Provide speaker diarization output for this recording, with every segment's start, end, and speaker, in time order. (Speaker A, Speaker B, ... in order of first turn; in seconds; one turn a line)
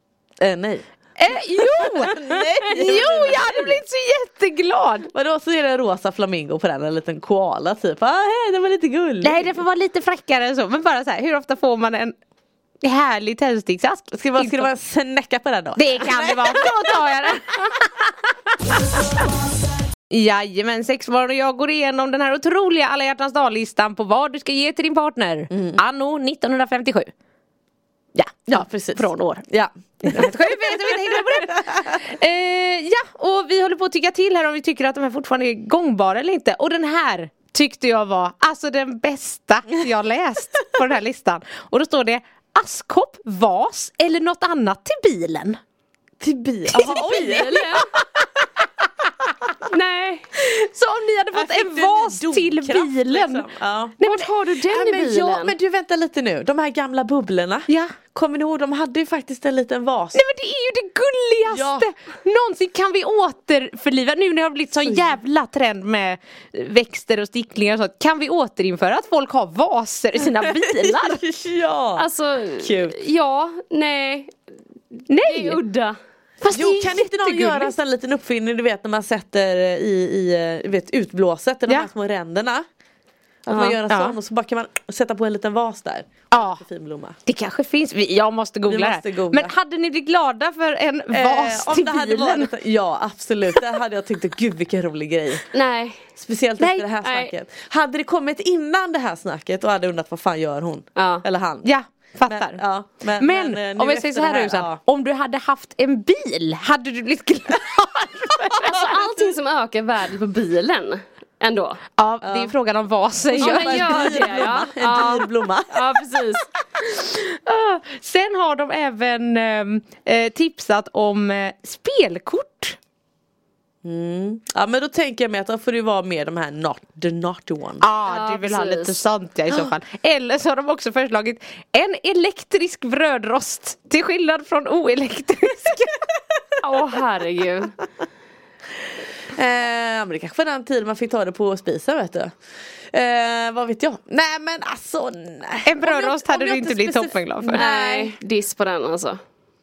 Speaker A: 0.4-0.8
Speaker B: 1.2-5.1
Speaker A: 1.6-3.8
Speaker A: 5.1-9.5
Speaker B: 9.2-12.1
Speaker B: 12.8-14.7
Speaker A: 14.1-17.0
Speaker B: 15.8-18.1
Speaker B: 20.1-27.1
Speaker A: 25.5-25.8
Speaker B: 28.1-29.4
Speaker A: 28.5-31.9
Speaker B: 30.0-45.6
Speaker A: 46.2-47.9
Speaker C: 46.9-47.9
Speaker C: 49.6-50.3
Speaker B: 50.4-53.5
Speaker A: 51.3-54.0
Speaker B: 54.0-54.3
Speaker C: 54.0-55.5
Speaker A: 54.6-60.2
Speaker B: 57.7-58.0
Speaker B: 60.1-71.2
Speaker A: 61.5-61.9
Speaker A: 64.8-65.1
Speaker A: 70.2-72.1
Speaker C: 72.0-74.3
Speaker A: 72.6-73.0
Speaker B: 75.1-75.6
Speaker C: 75.2-76.0
Speaker B: 76.4-77.7
Speaker A: 76.5-82.6
Speaker A: 83.5-87.2
Speaker C: 83.5-83.8
Speaker B: 83.9-84.2
Speaker B: 86.3-86.6
Speaker B: 87.2-92.5
Speaker A: 88.7-89.5
Speaker A: 91.1-95.5
Speaker C: 95.5-96.1
Speaker A: 96.2-101.7
Speaker B: 96.6-96.9
Speaker C: 97.0-97.3
Speaker C: 101.0-101.2
Speaker B: 101.6-102.6
Speaker A: 102.3-104.8
Speaker B: 103.2-108.7
Speaker C: 108.6-111.8
Speaker B: 112.0-114.5
Speaker A: 112.2-112.5
Speaker A: 113.3-116.0
Speaker C: 113.4-116.5
Speaker B: 116.8-122.8
Speaker A: 123.8-127.8
Speaker B: 127.8-136.0
Speaker C: 128.1-129.0
Speaker C: 136.6-137.8
Speaker A: 139.3-142.3
Speaker A: 142.9-148.2
Speaker B: 145.6-147.7
Speaker C: 147.5-149.2